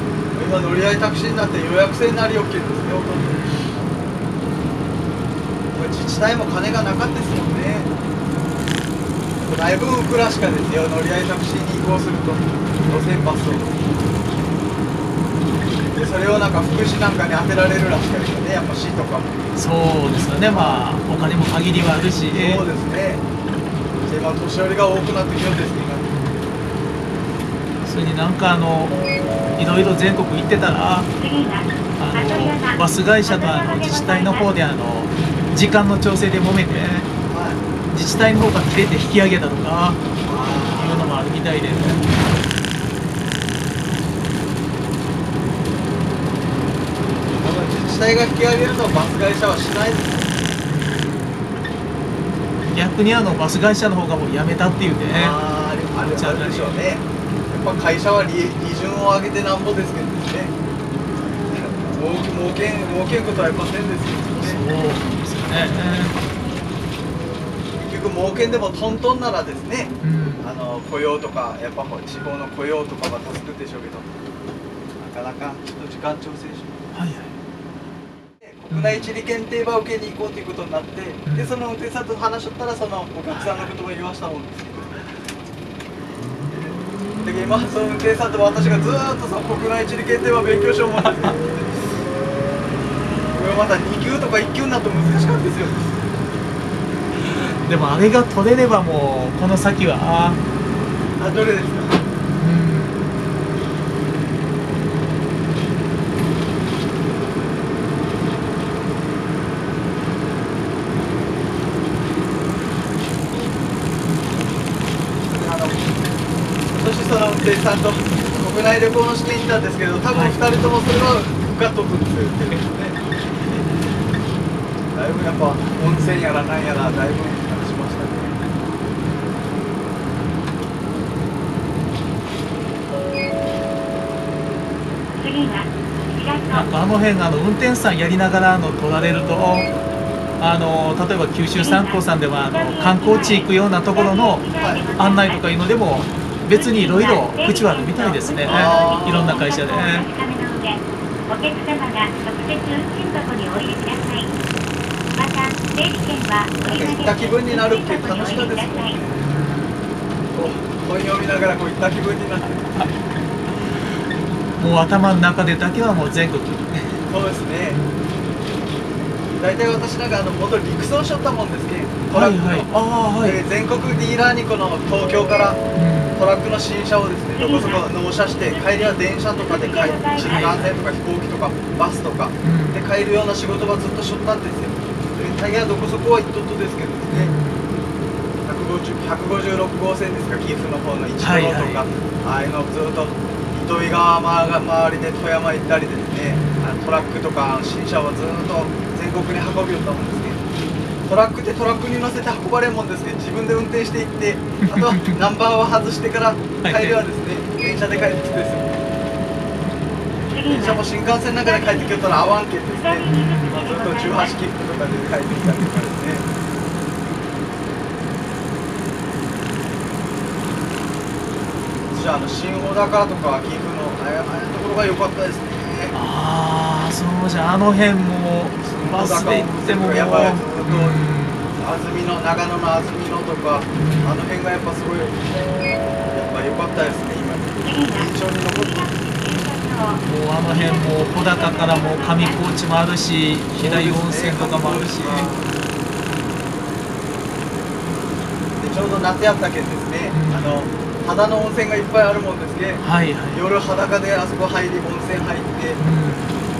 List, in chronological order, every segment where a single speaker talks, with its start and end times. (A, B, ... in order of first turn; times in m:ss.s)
0:00.3-0:03.9 A
0:03.2-0:03.7 B
0:05.7-0:07.9 A
0:09.5-0:13.7 A
0:12.8-0:13.4 B
0:15.9-0:19.4 A
0:19.6-0:22.6 B
0:20.5-0:20.9 A
0:22.3-0:23.2 A
0:24.0-0:26.1 A
0:27.8-0:29.0 B
0:29.6-0:31.1 B
0:31.2-0:34.5 C
0:32.0-0:37.1 B
0:37.2-0:37.6 A
0:37.9-0:42.0 B
0:40.2-0:41.2 A
0:47.4-0:50.3 A
0:52.7-0:55.4 B
0:55.1-1:00.5 A
0:56.1-0:56.7 B
1:01.5-1:04.6 A
1:04.4-1:06.1 B
1:07.8-1:14.1 A
1:10.0-1:10.5 B
1:15.0-1:16.9 A
1:16.9-1:17.4 B
1:18.4-1:25.0 A
1:18.7-1:19.0 B
1:23.3-1:23.7 B
1:27.2-1:31.7 A
1:28.6-1:29.0 B
1:31.0-1:31.4 B
1:33.3-1:35.8 A
1:37.7-1:40.4 B
1:41.2-1:42.0 A
1:42.4-1:43.0 B
1:55.3-1:56.0 A
1:56.7-2:03.6 A
2:00.1-2:00.4 B
2:04.9-2:08.4 A
2:15.2-2:16.7 C
2:16.5-2:19.7 B
2:20.4-2:24.4 B
2:21.6-2:25.4 C
2:25.0-2:30.0 B
2:26.5-2:34.3 C
2:28.4-2:29.4 A
2:35.1-2:39.0 C
2:36.6-2:39.2 A
2:39.3-2:39.6 B
2:40.3-2:42.6 A
2:42.4-2:42.9 B
2:44.6-2:47.0 B
2:47.1-2:47.8 A
2:49.4-2:55.6 A
2:52.1-2:53.4 B
2:55.8-2:56.2 B
2:56.2-3:07.3 A
2:57.4-2:57.8 C
2:58.4-3:00.6 C
3:00.2-3:00.8 B
3:02.4-3:02.8 B
3:07.1-3:07.7 B
3:08.4-3:20.4 A
3:11.2-3:11.8 B
3:16.3-3:16.6 B
3:21.0-3:28.7 A
3:24.7-3:25.2 B
3:26.6-3:27.0 B
3:30.3-3:30.8 C
3:30.5-3:36.2 A
3:31.4-3:34.4 C
3:33.0-3:33.5 B
3:35.4-3:35.7 B
3:41.9-3:45.9 A
3:45.9-3:51.5 B
3:48.7-3:51.0 A
3:51.6-3:55.2 A
3:53.8-3:54.2 B
3:56.1-3:58.9 A
3:57.6-4:02.4 C
4:00.0-4:05.3 B
4:03.6-4:05.6 A
4:08.6-4:15.8 A
4:10.1-4:10.6 B
4:12.8-4:13.4 B
4:15.8-4:16.3 B